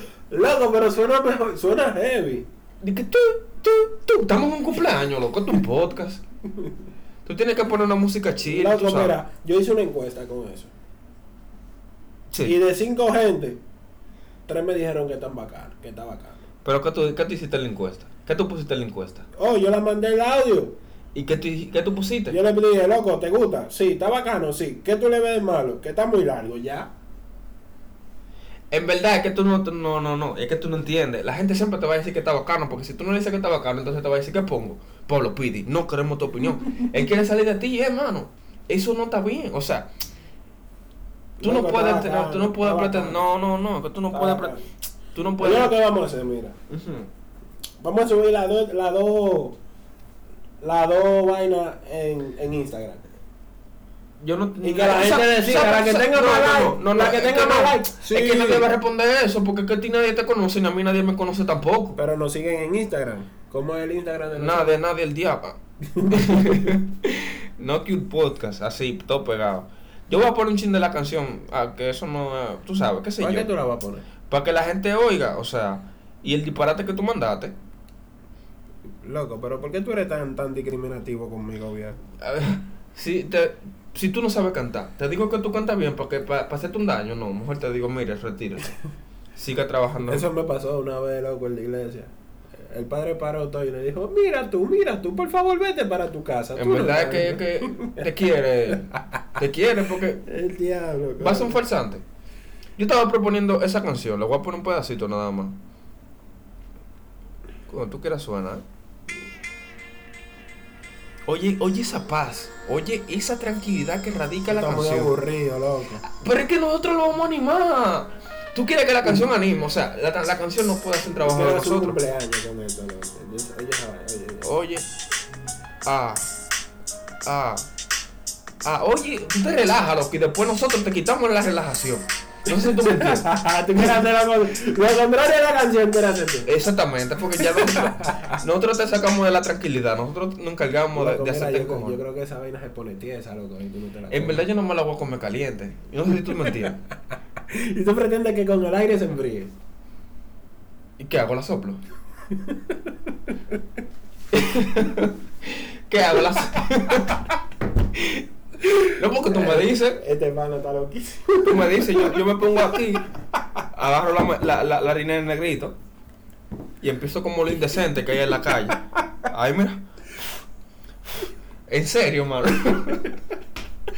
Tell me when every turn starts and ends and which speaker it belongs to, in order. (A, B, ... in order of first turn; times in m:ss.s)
0:00.3-0:02.5 A
0:02.8-0:06.2 B
0:07.2-0:09.2 B
0:08.5-0:10.7 A
0:12.4-0:13.6 A
0:14.5-0:16.4 A
0:16.6-0:19.3 B
0:19.4-0:20.7 A
0:21.1-0:22.4 B
0:22.3-0:26.9 A
0:28.7-0:39.9 B
0:41.4-0:43.2 A
0:41.4-0:44.5 B
0:44.1-0:44.7 A
0:45.1-0:45.7 B
0:45.4-0:46.6 A
0:46.7-0:47.1 B
0:47.8-0:49.6 A
0:50.6-0:53.0 A
0:54.2-1:02.0 B
0:54.6-0:58.6 A
1:02.0-1:04.8 A
1:04.4-1:13.5 B
1:05.9-1:06.7 A
1:13.2-1:14.0 A
1:14.2-1:17.5 B
1:19.0-1:22.0 A
1:22.2-1:28.7 B
1:29.4-1:30.3 B
1:30.1-1:38.0 A
1:36.6-1:40.2 B
1:40.2-1:41.6 A
1:41.2-1:42.0 B
1:42.8-1:45.6 B
1:47.7-1:48.6 B
1:51.2-1:55.1 B
1:54.5-1:56.0 A
1:56.0-2:02.0 B
2:01.1-2:04.5 A
2:04.4-2:04.8 B
2:05.8-2:06.3 B
2:07.2-2:07.7 B
2:08.6-2:13.3 B
2:12.6-2:16.5 A
2:16.4-2:22.0 B
2:17.4-2:18.3 A
2:20.9-2:24.4 A
2:24.1-2:26.8 B
2:27.5-2:29.5 A
2:31.0-2:31.8 B
2:32.3-2:32.9 A
2:34.3-2:37.3 B
2:37.9-2:40.0 B
2:39.3-2:42.2 A
2:41.4-2:43.0 B
2:43.7-2:45.8 B
2:46.8-2:49.8 B
2:51.7-2:53.1 B